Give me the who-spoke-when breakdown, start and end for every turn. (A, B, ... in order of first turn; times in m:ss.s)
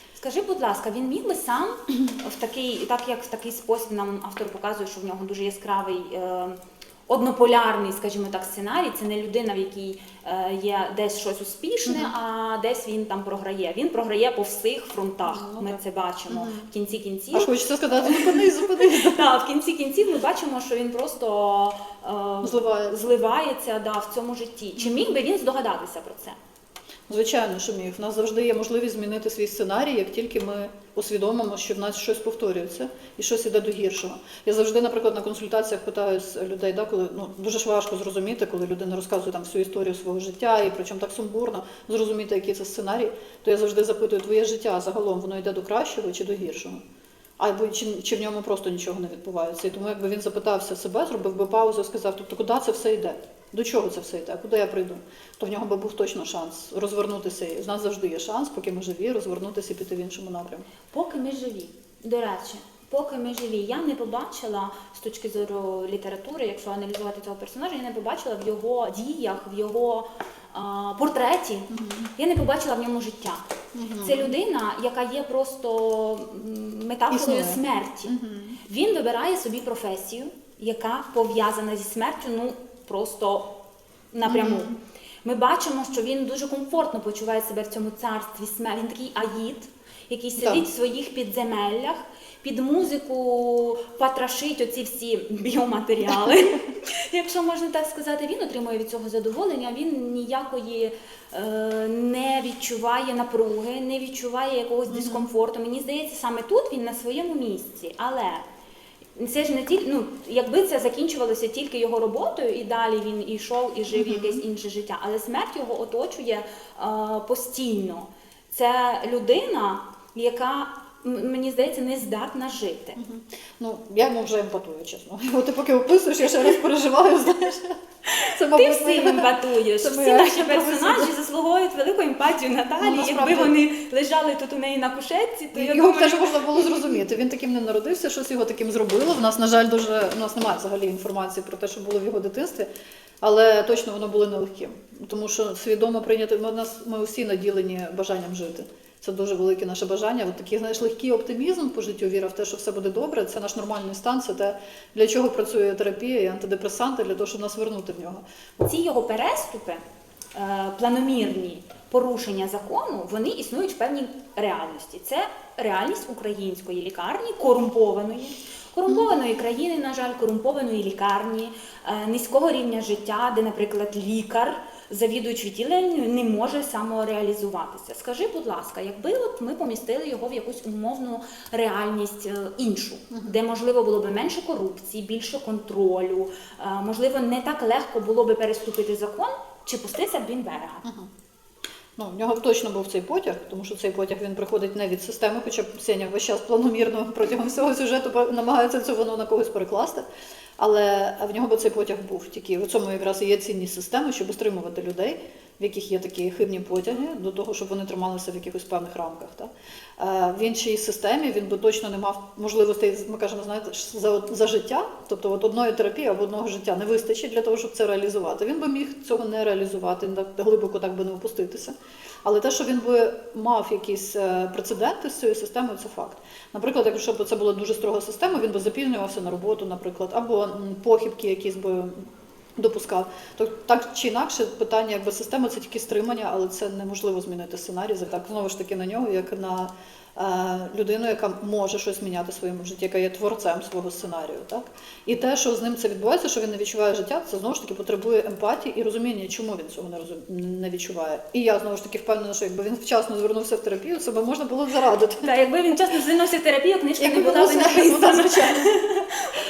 0:00.2-0:06.6 A
0:07.1-0:26.4 A
0:11.9-0:12.1 B
0:15.3-0:15.8 B
0:16.3-0:16.7 B
0:17.3-0:19.3 B
0:22.4-0:23.1 B
0:24.8-0:25.1 B
0:27.1-0:46.8 B
0:47.4-1:00.7 B
1:00.9-1:13.4 A
1:11.7-1:12.1 B
1:13.7-1:14.3 B
1:14.0-1:18.1 A
1:17.1-1:18.6 B
1:18.6-1:23.5 A
1:24.1-1:48.4 A
1:24.3-1:24.7 B
1:30.4-1:30.6 B
1:44.9-1:45.3 B
1:49.2-2:03.0 A
1:53.9-1:54.4 B
2:03.0-2:11.1 B
2:08.1-2:17.0 A
2:12.8-2:13.5 B
2:15.5-2:22.7 B
2:23.2-2:38.6 B
2:38.6-2:39.8 A
2:40.3-3:10.8 A
3:10.8-3:11.1 B
3:12.0-3:20.1 B
3:20.6-4:15.3 B
4:15.2-4:19.3 A
4:17.0-4:18.7 B